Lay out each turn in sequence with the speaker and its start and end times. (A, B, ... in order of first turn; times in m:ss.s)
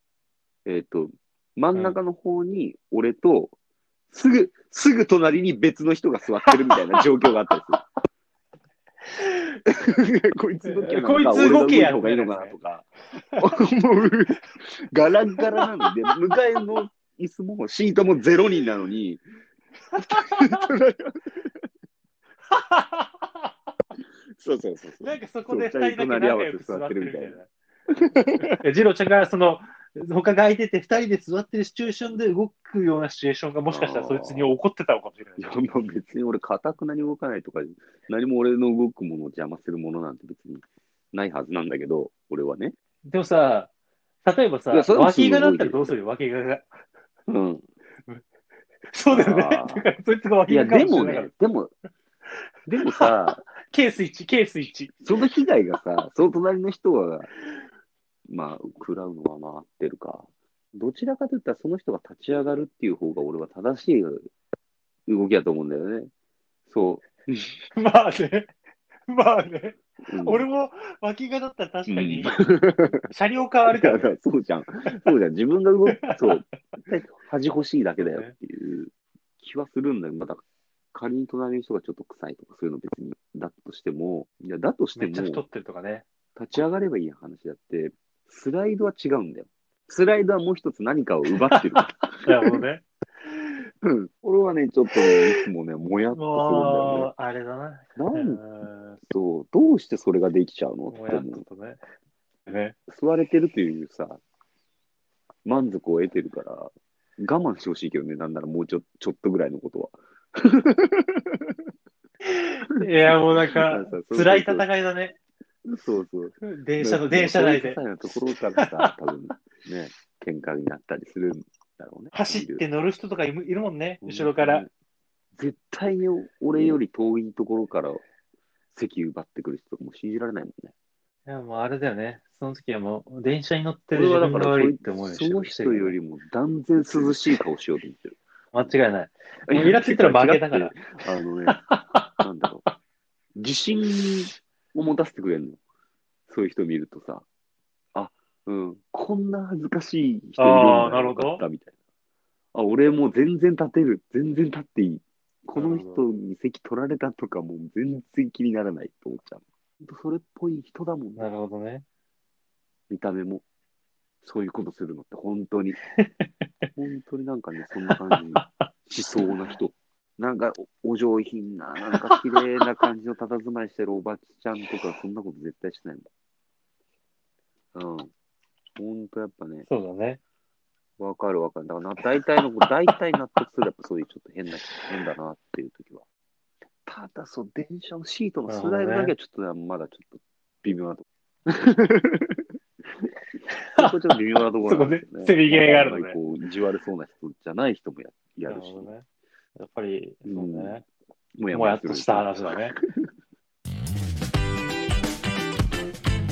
0:00.6-0:03.5 A
0:04.1-0:07.8 A
0:06.5-0:06.8 B
0:09.2-0:09.6 B
0:09.7-0:12.9 A
0:10.6-0:12.5 B
0:13.1-0:13.5 B
0:13.4-0:19.2 A
0:19.9-0:20.7 B
0:20.0-0:21.5 A
0:22.5-0:23.5 B
0:24.4-0:28.4 A
0:25.0-0:27.5 B
0:28.1-0:35.5 B
0:33.7-0:34.5 A
0:35.4-0:42.7 A
0:43.0-0:43.7 B
0:44.2-0:46.8 B
0:44.7-0:45.9 A
0:47.3-0:47.7 A
0:48.9-0:51.3 B
0:49.1-0:49.8 A
0:50.5-0:51.7 A
0:52.7-0:53.4 A
0:52.9-0:55.1 B
0:55.0-0:57.3 A
0:58.3-1:04.3 A
1:05.1-1:06.1 A
1:06.7-1:07.6 A
1:07.7-1:08.5 B
1:09.1-1:12.4 B
1:10.0-1:10.4 A
1:11.9-1:13.0 A
1:13.0-1:14.1 B
1:13.6-1:25.4 A
1:14.8-1:15.1 B
1:15.9-1:16.4 B
1:18.0-1:18.3 B
1:25.0-1:26.0 B
1:26.4-1:32.6 A
1:31.5-1:32.8 B
1:33.8-1:37.1 A
1:35.1-1:35.4 B
1:36.1-1:39.0 B
1:38.0-1:38.4 A
1:39.0-1:41.4 A
1:40.9-1:41.8 B
1:42.5-1:42.7 B
1:42.9-1:44.2 A
1:45.4-1:51.5 A
1:52.2-1:55.2 B
1:52.8-1:54.6 A
1:55.6-2:02.6 A
1:56.4-1:57.9 B
1:58.6-1:58.9 B
2:02.1-2:04.6 B
2:04.0-2:04.7 A
2:05.3-2:08.0 A
2:08.7-2:10.7 A
2:11.3-2:16.0 B
2:13.9-2:18.7 A
2:18.5-2:20.9 B
2:19.5-2:21.6 A
2:21.5-2:22.2 B
2:22.2-2:22.6 A
2:23.4-2:25.6 A
2:26.3-2:27.2 A
2:27.9-2:31.7 A
2:30.4-2:31.4 B
2:32.5-2:41.3 A
2:35.5-2:36.0 B
2:41.2-2:41.8 B
2:42.9-2:43.4 A
2:44.2-2:45.8 A
2:46.0-2:46.2 B
2:46.8-2:56.1 A
2:47.9-2:48.5 B
2:51.9-2:52.2 B
2:57.7-2:58.1 A
2:58.8-2:59.7 A
2:59.7-3:00.2 B
3:01.0-3:06.0 A
3:06.8-3:12.4 A
3:08.5-3:09.1 B
3:13.5-3:13.9 B
3:13.8-3:18.9 A
3:14.6-3:16.2 B
3:18.5-3:19.0 B
3:19.6-3:20.8 B
3:20.2-3:20.8 A
3:21.4-3:22.3 A
3:21.5-3:22.8 B